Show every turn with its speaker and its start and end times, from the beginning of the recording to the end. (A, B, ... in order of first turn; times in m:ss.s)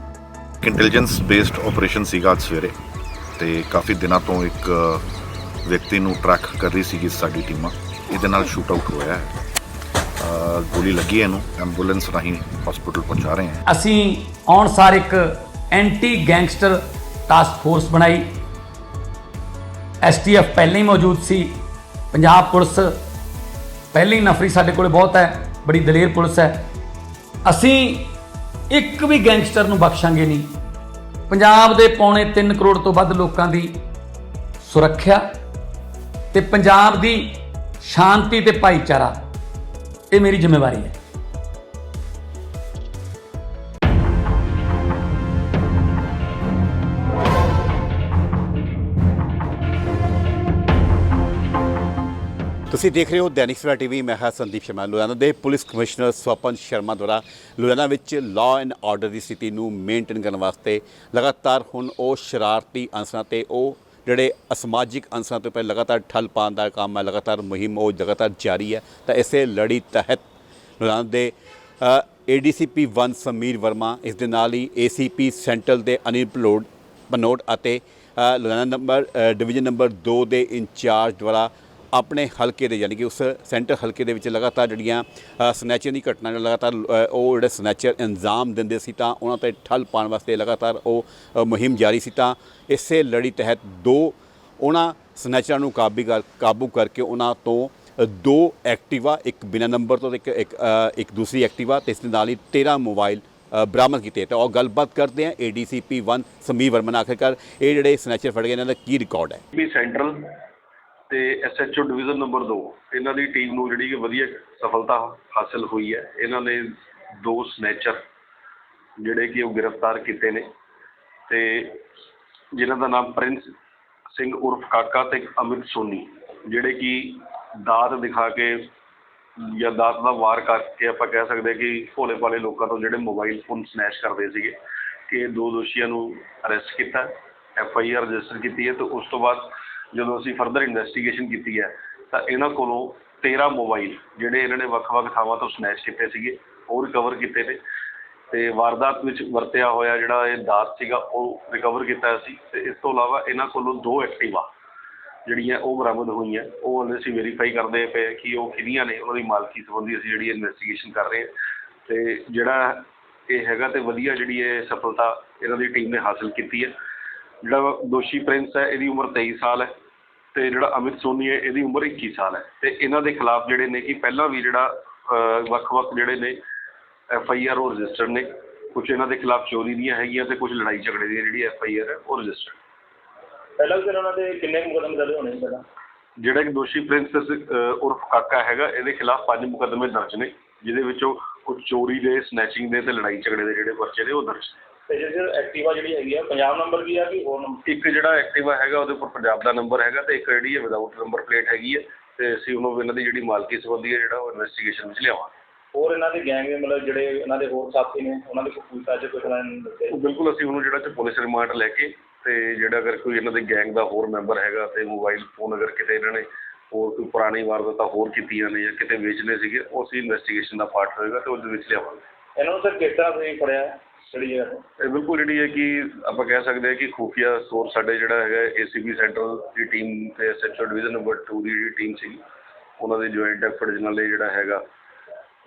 0:00.6-0:02.8 A
0:03.4-0:05.0 A
0:05.6-0:09.3 A
0:10.2-0:13.6 A
0:13.7-0:18.2 B
0:20.0-0:21.5 B
0:22.1-0:22.9 B
0:23.9-0:26.6 B
0:27.4-0:28.1 B
0:28.7-0:30.5 B
0:31.3-0:33.7 B
0:34.6-0:35.2 B
0:36.3-0:39.1 B
0:40.1-0:40.9 B
0:52.7-1:10.2 C
1:10.8-1:49.4 C
1:49.5-1:50.3 D
1:51.1-1:58.0 D
1:59.0-2:00.5 D
2:01.3-2:01.8 D
2:02.5-2:03.5 D
2:04.1-2:08.7 D
2:09.4-2:27.6 D
2:28.3-2:34.5 D
2:35.2-2:41.3 D
2:41.9-2:46.7 D
2:47.4-2:49.7 D
2:50.3-2:56.4 D
2:57.1-3:02.6 D
3:03.6-3:05.6 E
3:06.2-3:14.6 D
3:14.9-3:17.6 E
3:17.6-3:25.3 D
3:25.7-3:30.0 E
3:29.9-3:42.0 D
3:42.4-3:44.6 E
3:44.8-3:52.2 D
3:52.8-3:54.6 D